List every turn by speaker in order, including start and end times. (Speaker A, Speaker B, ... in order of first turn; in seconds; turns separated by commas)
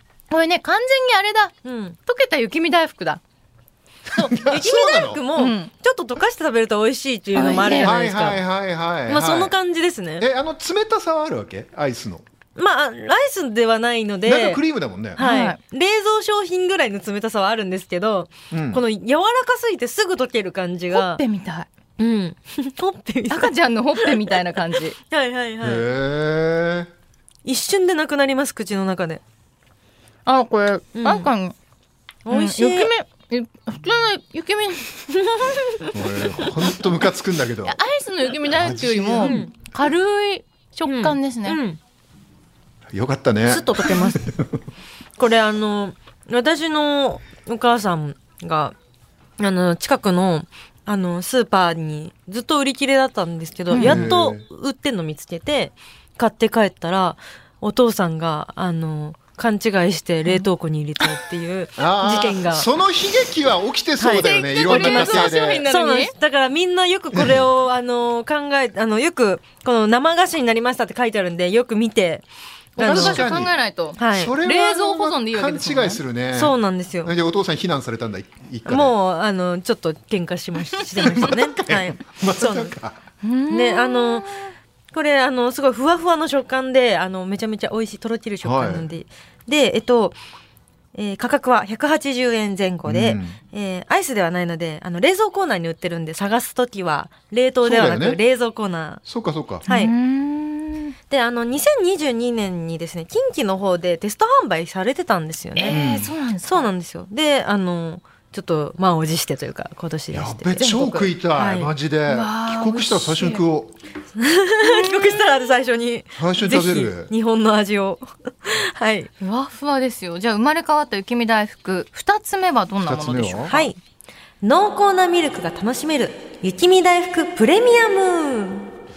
Speaker A: 0.3-1.5, Speaker B: 1.6-2.0, Speaker A: 2.0-3.2, Speaker B: 4.1-8.4, Speaker C: 4.1-5.2, Speaker A: 5.3-5.7, Speaker A: 7.3-8.0, Speaker C: 7.6-9.5, Speaker B: 9.1-10.3, Speaker C: 10.2-12.2, Speaker B: 12.6-14.6, Speaker C: 14.2-15.2, Speaker B: 15.2-21.2, Speaker A: 15.2-15.6, Speaker C: 18.5-18.8, Speaker A: 20.9-21.7, Speaker B: 22.0-24.3, Speaker A: 23.3-25.0, Speaker B: 25.1-25.9, Speaker C: 25.6-26.9, Speaker B: 27.4-29.2, Speaker A: 30.2-31.5, Speaker B: 30.9-31.3, Speaker B: 32.2-32.9, Speaker A: 32.3-34.9, Speaker B: 35.5-35.9, Speaker C: 35.9-37.8, Speaker A: 37.6-41.6, Speaker C: 38.5-39.4, Speaker B: 39.2-39.5, Speaker B: 40.9-41.8, Speaker C: 42.9-44.6, Speaker B: 43.5-44.2, Speaker B: 45.2-48.7, Speaker B: 49.4-62.6, Speaker A: 53.7-54.1, Speaker C: 53.8-54.4, Speaker C: 61.8-65.7, Speaker B: 64.0-72.2, Speaker A: 64.2-66.1, Speaker C: 67.1-67.5, Speaker B: 72.8-73.2, Speaker A: 72.8-76.0, Speaker C: 72.8-73.5, Speaker B: 74.0-74.3, Speaker C: 74.1-78.9, Speaker B: 76.3-77.1, Speaker B: 78.7-82.7, Speaker C: 80.9-83.0, Speaker A: 83.2-84.4, Speaker B: 83.5-84.4, Speaker B: 84.9-90.2, Speaker C: 88.4-88.9, Speaker B: 90.9-99.0, Speaker C: 92.8-93.4, Speaker C: 97.6-98.2, Speaker C: 99.0-99.6, Speaker B: 99.7-99.9, Speaker A: 99.7-100.9, Speaker B: 101.1-105.8, Speaker A: 105.5-106.7, Speaker C: 105.7-106.1, Speaker B: 106.4-111.7, Speaker C: 110.1-113.7, Speaker A: 112.1-113.4, Speaker B: 114.2-119.1, Speaker A: 114.6-115.2, Speaker C: 116.2-117.1, Speaker A: 119.2-123.5, Speaker C: 122.8-123.7, Speaker B: 123.5-123.8, Speaker B: 124.4-128.7